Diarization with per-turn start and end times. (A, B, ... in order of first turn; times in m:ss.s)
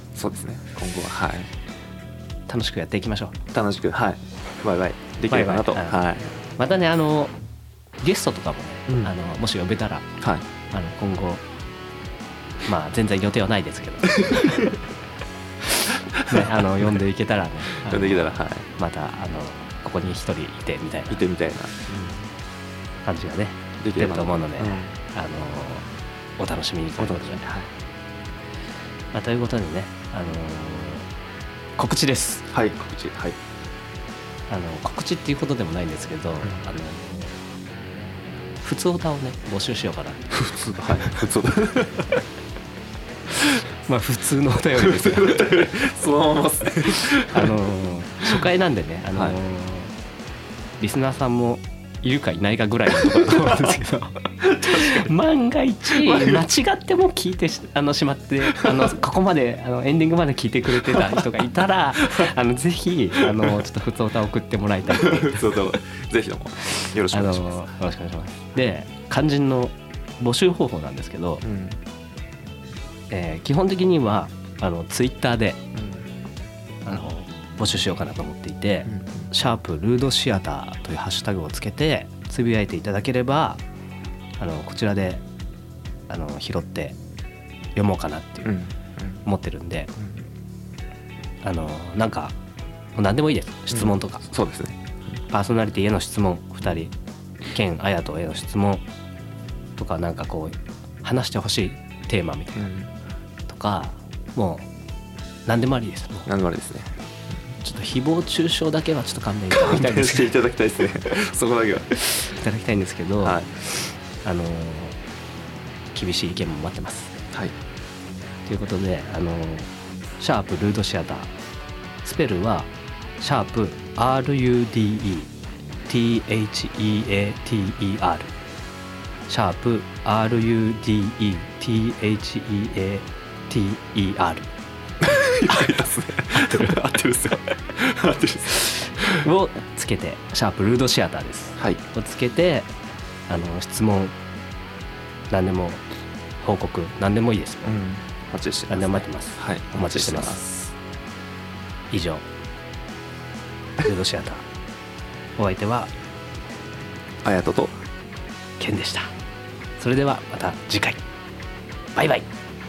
0:00.1-0:01.5 A
0:02.5-0:03.4 B
0:03.5-0:06.3 A
0:05.3-0:06.0 B
0:06.6-0:07.3 B
0:08.0-0:10.0 B
0:10.2-0:10.4 A
0:10.7-0:11.4 B
0:12.6-0:14.8 B
0:14.3-0:14.7 A
0:16.3-0:21.2 B
0:17.8-0:18.7 A
0:21.1-0:22.3 A
0:23.0-0:25.9 B
0:23.8-0:25.0 A
0:26.4-0:27.4 B
0:27.0-0:27.7 A
0:29.1-0:31.1 B
0:31.8-0:32.5 B
0:32.5-0:33.4 A
0:34.5-0:37.4 B
0:38.6-0:40.2 B
0:40.3-0:42.2 A
0:43.8-0:45.7 B
0:44.7-0:47.6 A
0:47.0-0:49.9 B
0:50.8-1:05.7 B
0:53.1-0:53.5 A
0:54.4-0:55.1 A
0:55.9-0:56.4 A
1:04.9-1:07.6 A
1:07.1-1:11.4 B
1:11.4-1:11.8 A
1:13.1-1:15.6 B
1:15.7-1:16.1 A
1:16.8-1:23.6 B
1:18.8-1:19.3 A
1:24.4-1:25.2 B
1:26.1-1:27.0 B
1:27.8-1:28.6 B
1:28.4-1:29.2 A
1:29.2-1:29.9 B
1:31.4-1:32.3 B
1:33.0-1:34.2 B
1:33.7-1:34.8 A
1:35.3-1:36.9 B
1:37.5-1:38.8 B
1:39.8-1:42.7 B
1:42.5-1:42.9 A
1:43.5-1:44.7 B
1:45.4-1:46.3 B
1:46.3-1:47.0 A
1:47.6-1:50.3 B
1:49.5-1:52.0 A
1:52.2-1:53.5 B
1:53.2-1:53.6 A
1:54.2-1:55.0 B
1:55.9-1:57.1 B
1:58.4-2:01.3 B
2:02.0-2:02.7 B
2:03.2-2:05.3 B
2:05.9-2:08.3 B
2:09.3-2:14.5 B
2:15.0-2:19.2 A
2:16.4-2:16.8 B
2:18.9-2:22.7 B
2:21.6-2:21.8 A
2:23.3-2:24.1 B
2:25.3-2:25.8 B
2:26.4-2:27.8 B
2:27.6-2:30.7 A
2:28.7-2:30.4 B
2:31.9-2:32.2 B
2:33.8-2:34.4 B
2:35.4-2:35.9 B
2:37.2-2:37.8 A
2:38.6-2:39.1 B
2:39.8-2:41.0 B
2:41.9-2:42.3 B